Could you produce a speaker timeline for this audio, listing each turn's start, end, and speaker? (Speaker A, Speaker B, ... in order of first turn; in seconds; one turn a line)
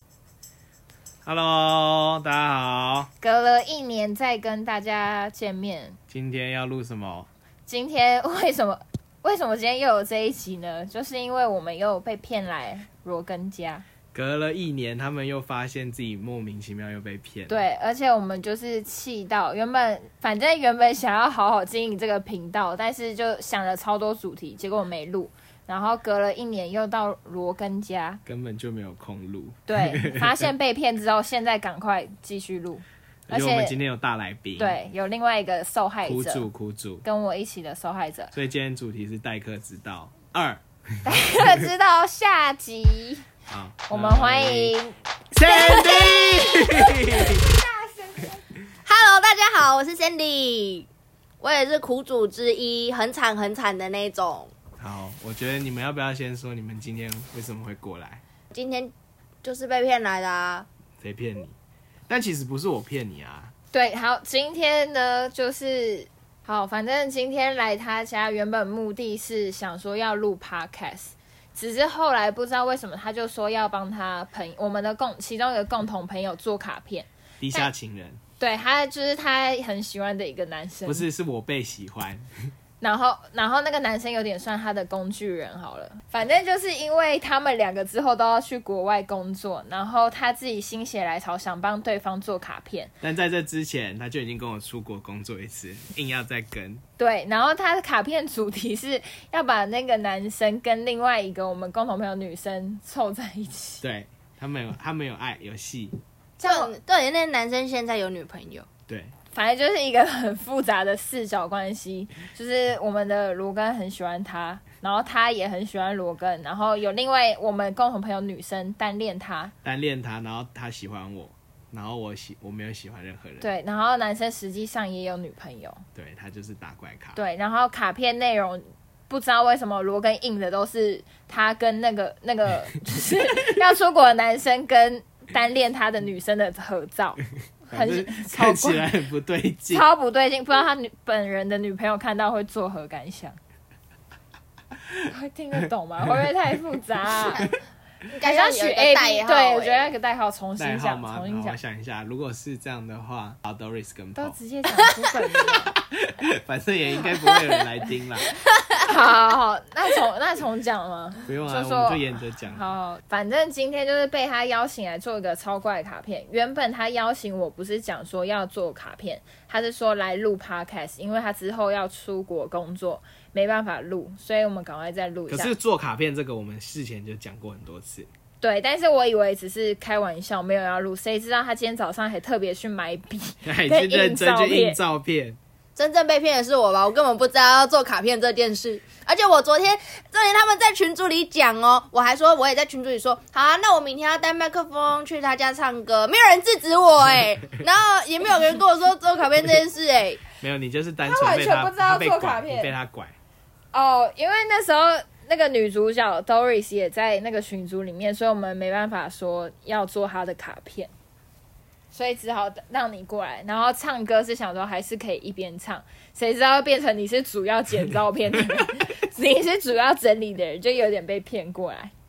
Speaker A: 1.2-3.1
Speaker B: 3.2-6.0
Speaker A: 6.1-7.3
Speaker B: 7.7-13.8
Speaker A: 14.1-17.6
Speaker B: 17.5-28.2
Speaker A: 28.3-30.5
Speaker B: 29.7-33.8
Speaker A: 33.3-34.8
Speaker B: 34.6-36.5
Speaker A: 36.0-37.0
Speaker B: 37.0-38.3
Speaker A: 38.3-41.5
Speaker B: 41.0-43.3
Speaker A: 43.5-44.8
Speaker B: 43.9-45.0
Speaker A: 45.3-47.4
Speaker C: 45.5-46.5
Speaker B: 45.6-46.1
Speaker B: 46.9-48.4
Speaker C: 48.9-50.9
Speaker C: 51.4-54.5
Speaker A: 54.8-58.2
Speaker C: 58.5-58.9
Speaker C: 59.4-60.7
Speaker A: 61.0-61.5
Speaker A: 62.1-63.5
Speaker B: 63.7-77.7
Speaker A: 77.4-78.2
Speaker B: 78.4-81.0
Speaker A: 80.9-82.3
Speaker B: 82.8-92.9
Speaker A: 93.0-96.8
Speaker B: 97.0-103.8
Speaker A: 103.8-106.0
Speaker C: 106.4-108.7
Speaker B: 106.4-106.7
Speaker A: 108.9-109.1
Speaker B: 109.3-119.5
Speaker A: 119.6-123.5
Speaker B: 123.4-125.8
Speaker A: 126.0-127.2
Speaker B: 127.2-138.9
Speaker A: 137.7-139.9
Speaker B: 139.7-143.4
Speaker B: 145.0-147.5
Speaker C: 148.1-149.9
Speaker B: 148.2-151.6
Speaker A: 150.6-154.4
Speaker B: 154.2-155.8
Speaker A: 155.7-158.3
Speaker C: 157.2-157.6
Speaker B: 158.8-175.5
Speaker A: 161.3-162.7
Speaker A: 175.3-178.1
Speaker B: 178.4-184.8
Speaker A: 183.4-185.4
Speaker C: 185.8-200.2
Speaker A: 200.4-203.2
Speaker B: 201.0-202.7
Speaker B: 203.7-210.9
Speaker B: 211.9-221.9